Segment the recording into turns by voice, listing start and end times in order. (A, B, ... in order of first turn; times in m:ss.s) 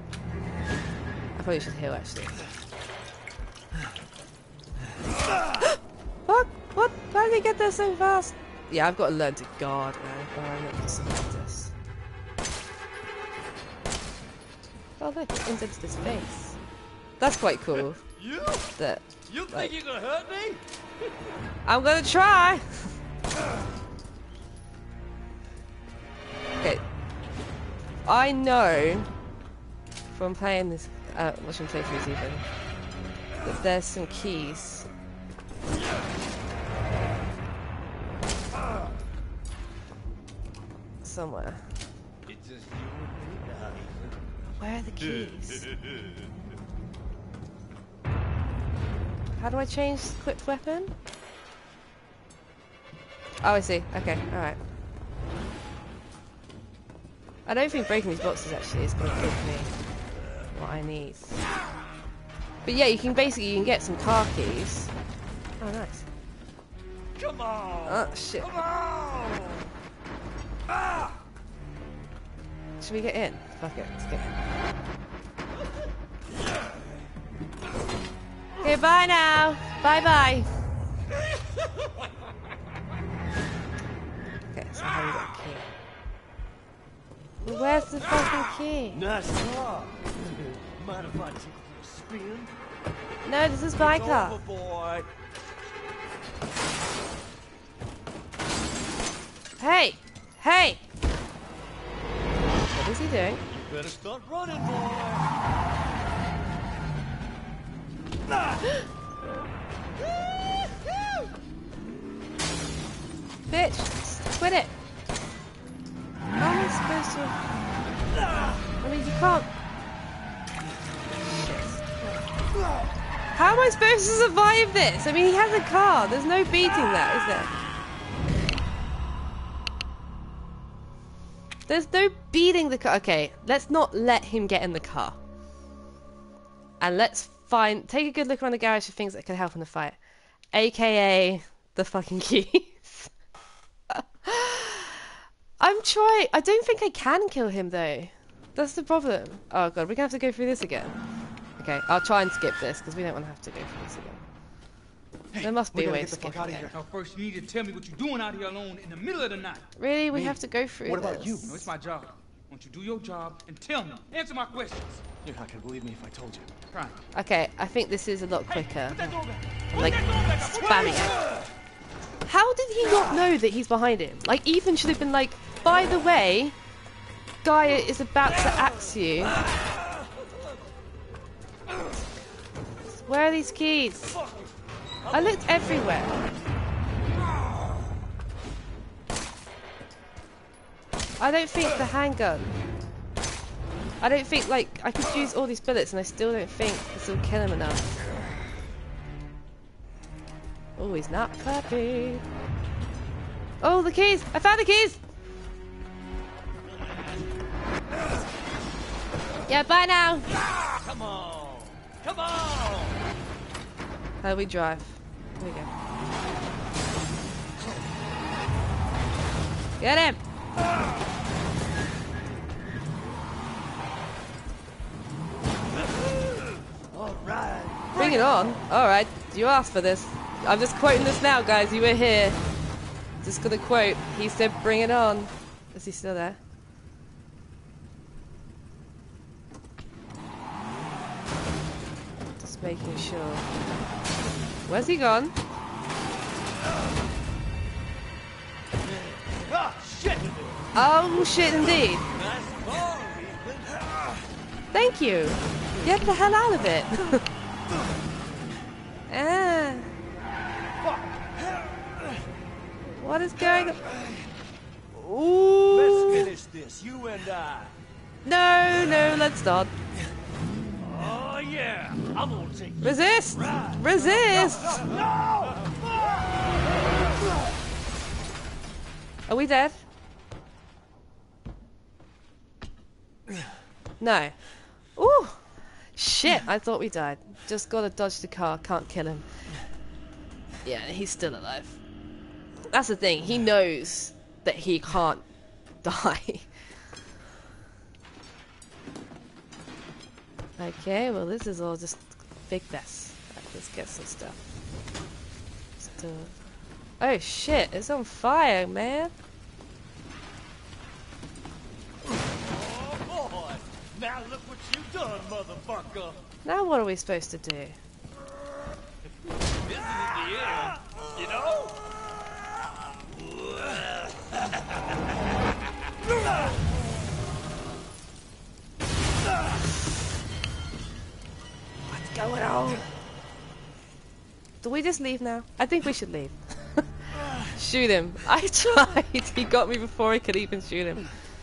0:01.4-0:02.4 A
0:06.3-0:11.7 A
0:15.0-0:16.6 A
0:17.2-0:18.0 A
0:18.2-0:20.6 B
0:18.8-0:19.8 A
0:21.6-0:22.9 A
0:28.0-0:29.1 A
0:30.1-0:32.4 A
0:33.4-0:34.9 A
0:41.0-0:41.6 A
0:42.3-0:44.2 B
0:44.6-0:45.7 A
0:49.4-0:51.0 A
0:53.4-0:54.6 A
0:57.5-0:59.7 A
1:00.5-1:01.4 A
1:02.6-1:04.9 A
1:05.6-1:06.1 A
1:07.2-1:09.7 B
1:07.8-1:08.5 A
1:12.8-1:14.4 A
1:18.6-1:20.5 A
1:24.5-1:25.7 A
1:27.4-1:29.0 A
1:28.9-1:32.5 B
1:30.2-1:30.4 A
1:33.2-1:34.4 A
1:33.8-1:35.1 B
1:39.6-1:40.8 A
1:42.7-1:43.4 A
1:43.5-1:45.4 B
1:53.5-1:54.7 A
1:56.4-1:57.4 A
1:58.3-1:58.6 B
1:58.8-1:59.5 A
2:01.4-2:01.8 A
2:03.4-2:07.5 A
2:11.7-2:15.2 A
2:16.8-2:20.0 A
2:20.5-2:23.1 A
2:23.9-2:31.0 A
2:31.6-2:34.2 A
2:35.3-2:36.7 C
2:35.4-2:36.7 A
2:36.7-2:39.7 D
2:39.8-2:41.6 A
2:40.9-2:41.5 C
2:41.4-2:45.0 D
2:45.2-2:46.5 C
2:46.7-2:47.0 D
2:47.1-2:49.1 A
2:49.7-2:51.2 A
2:49.8-2:51.0 D
2:52.3-2:56.6 A
2:57.4-2:59.4 A
3:02.9-3:04.2 A
3:05.1-3:05.6 B
3:05.1-3:06.2 A
3:11.2-3:12.5 A
3:14.0-3:17.9 A
3:20.8-3:22.2 A
3:23.6-3:25.0 A
3:29.5-3:30.3 A
3:30.8-3:33.0 B
3:34.2-3:35.7 A
3:39.8-3:40.2 A
3:46.1-3:48.6 B
3:48.0-3:52.4 A
3:53.2-3:56.4 A
4:02.4-4:03.5 A
4:04.7-4:05.4 A
4:08.9-4:10.7 B
4:10.8-4:12.1 A
4:11.4-4:14.0 B
4:14.7-4:17.3 A
4:19.1-4:19.9 A
4:20.8-4:22.2 B
4:22.9-4:23.9 A
4:25.0-4:26.3 A
4:25.7-4:27.8 B
4:28.2-4:29.7 A
4:30.8-4:37.0 B
4:32.8-4:34.9 A
4:39.3-4:39.8 A
4:44.0-4:44.4 A
4:45.0-4:49.3 A
4:50.6-4:51.8 A
4:52.7-4:55.2 A
4:55.8-4:56.5 A
5:00.6-5:04.4 A
5:05.8-5:06.4 A
5:07.0-5:09.1 A
5:12.4-5:16.3 B
5:16.4-5:17.8 A
5:19.6-5:21.9 B
5:23.4-5:23.6 B
5:31.9-5:32.8 A
5:34.6-5:41.1 A